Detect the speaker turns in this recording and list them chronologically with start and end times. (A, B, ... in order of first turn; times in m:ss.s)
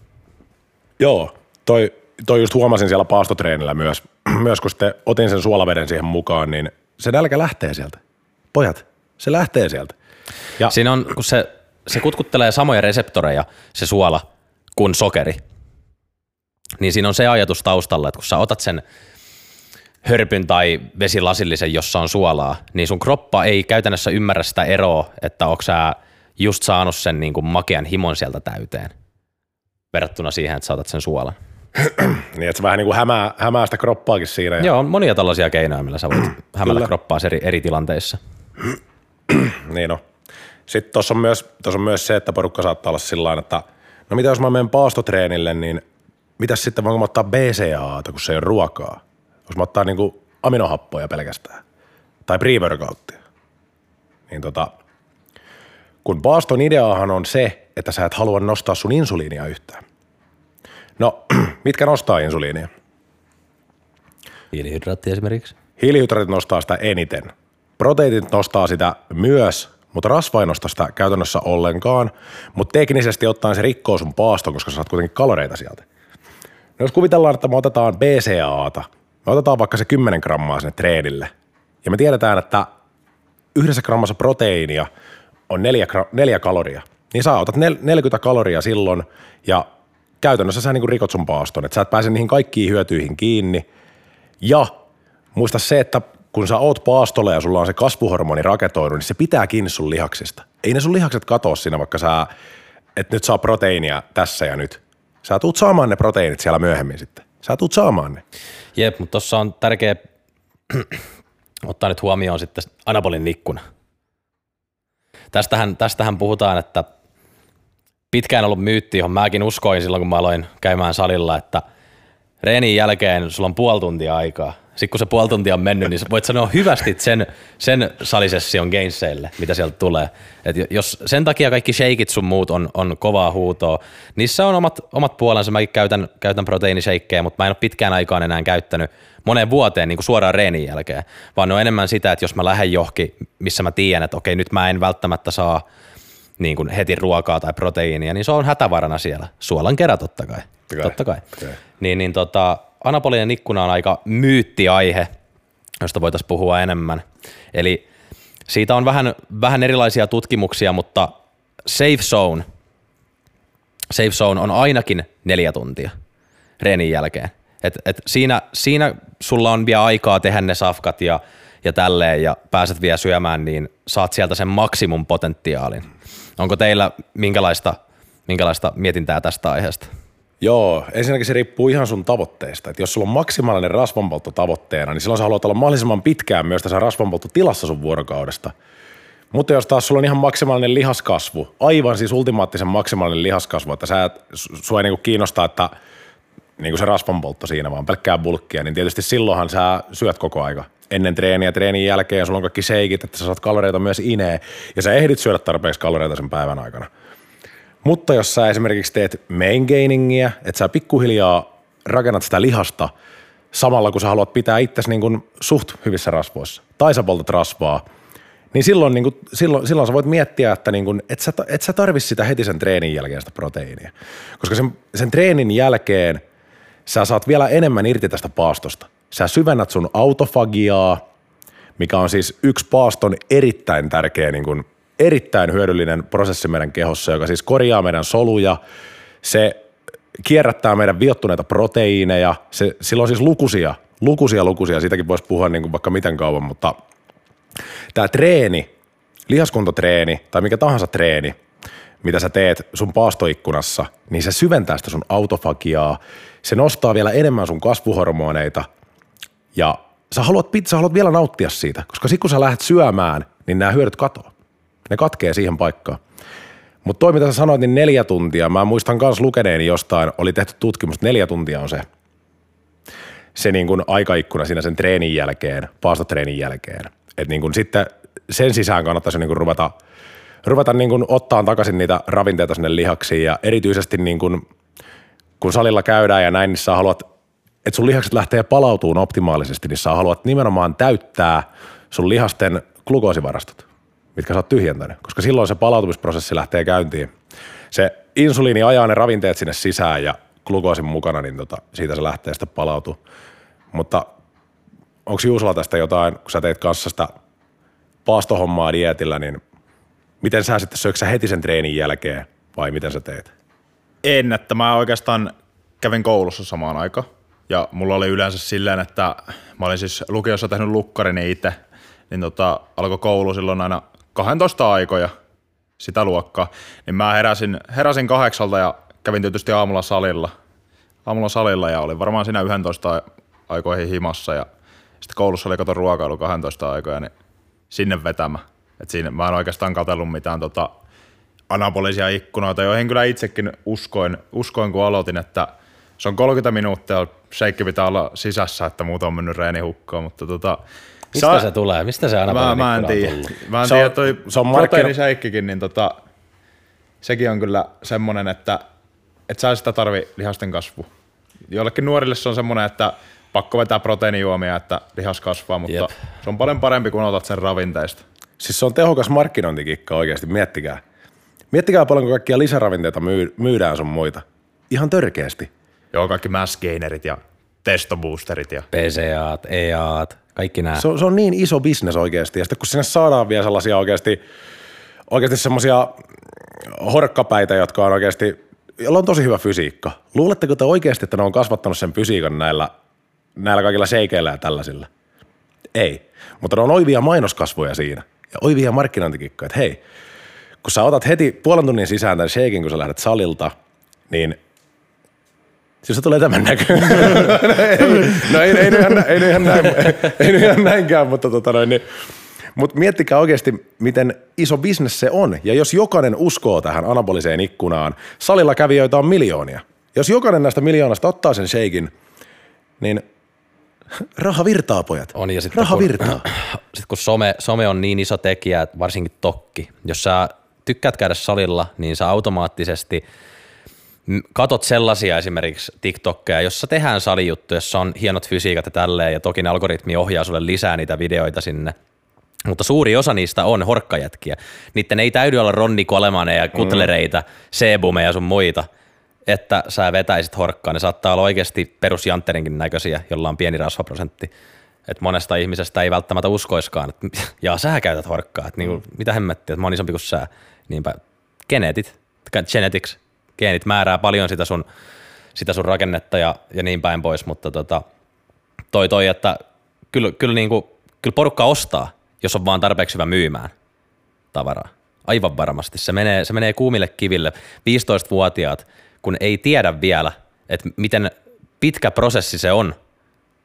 0:01.0-0:08.0 A
0:08.5-0:10.0 A
0:10.7-0:14.2 B
0:14.8-0:15.4 B
0:16.8-0:18.8 B
0:20.0-0:28.9 B
0:29.9-0:31.4 B
0:31.8-0:34.7 A
0:34.6-0:38.2 B
0:39.3-0:40.0 A
0:40.7-0:45.8 A
0:46.4-0:51.6 A
0:52.3-0:53.2 A
0:54.3-0:54.7 A
0:56.0-0:59.8 A
1:01.0-1:02.7 A
1:04.5-1:05.6 B
1:05.8-1:15.8 A
1:16.8-1:21.3 A
1:21.8-1:22.7 A
1:23.6-1:24.9 A
1:25.5-1:29.7 A
1:30.2-1:33.6 A
1:34.4-1:34.8 A
1:35.3-1:42.3 A
1:43.0-1:48.2 A
1:48.8-1:50.0 B
1:50.7-1:51.0 B
1:51.7-1:53.6 B
1:55.3-1:56.9 B
1:58.1-2:01.6 B
2:02.4-2:25.6 B
2:26.4-2:31.3 B
2:30.7-2:31.6 A
2:31.8-2:35.1 B
2:35.8-2:37.8 B
2:38.5-2:41.1 B
2:41.6-2:42.5 B
2:43.9-2:45.9 B
2:46.6-2:59.9 B
3:00.4-3:08.5 A
3:09.3-3:15.7 A
3:16.6-3:26.9 A
3:27.8-3:32.9 A
3:33.5-3:37.8 A
3:38.5-3:46.2 A
3:46.9-3:51.0 A
3:51.8-3:58.6 A
3:59.2-3:59.6 A
4:00.2-4:06.8 A
4:07.9-4:08.7 A
4:09.3-4:11.4 A
4:12.0-4:18.7 A
4:19.6-4:24.3 A
4:24.9-4:26.0 A
4:26.8-4:31.9 A
4:33.4-4:39.7 A
4:40.4-4:44.4 A
4:45.4-4:47.1 A
4:47.6-4:53.6 A
4:54.2-4:57.1 A
4:57.7-5:03.0 A
5:03.7-5:04.1 A
5:05.1-5:07.1 A
5:08.0-5:09.4 A
5:10.2-5:13.3 A
5:14.0-5:21.6 C
5:22.1-5:25.1 C
5:25.8-5:30.3 C
5:31.1-5:34.5 C
5:35.0-5:37.1 C
5:37.7-5:40.7 C
5:41.5-5:50.6 C
5:51.1-5:51.5 C
5:51.1-5:53.3 B
5:52.3-5:56.0 C
5:53.6-5:55.0 A
5:57.0-5:58.6 C
5:59.3-6:00.9 C
6:01.5-6:08.0 C
6:08.4-6:10.8 A
6:11.5-6:15.5 A
6:15.9-6:18.7 C
6:18.7-6:20.8 B
6:20.8-6:24.2 A
6:25.1-6:26.0 A
6:26.6-6:32.7 A
6:33.4-6:34.9 A
6:35.8-6:39.8 A
6:40.6-6:43.5 A
6:44.1-6:44.4 A
6:45.8-6:51.8 A
6:52.6-7:01.9 A
7:04.0-7:06.2 A
7:05.2-7:13.0 B
7:14.1-7:21.7 B
7:22.5-7:28.7 B
7:26.6-7:26.9 A
7:29.3-7:34.3 B
7:34.9-7:44.6 B
7:45.4-7:47.8 B
7:48.7-7:49.4 B
7:49.9-7:53.5 B
7:54.3-8:02.8 B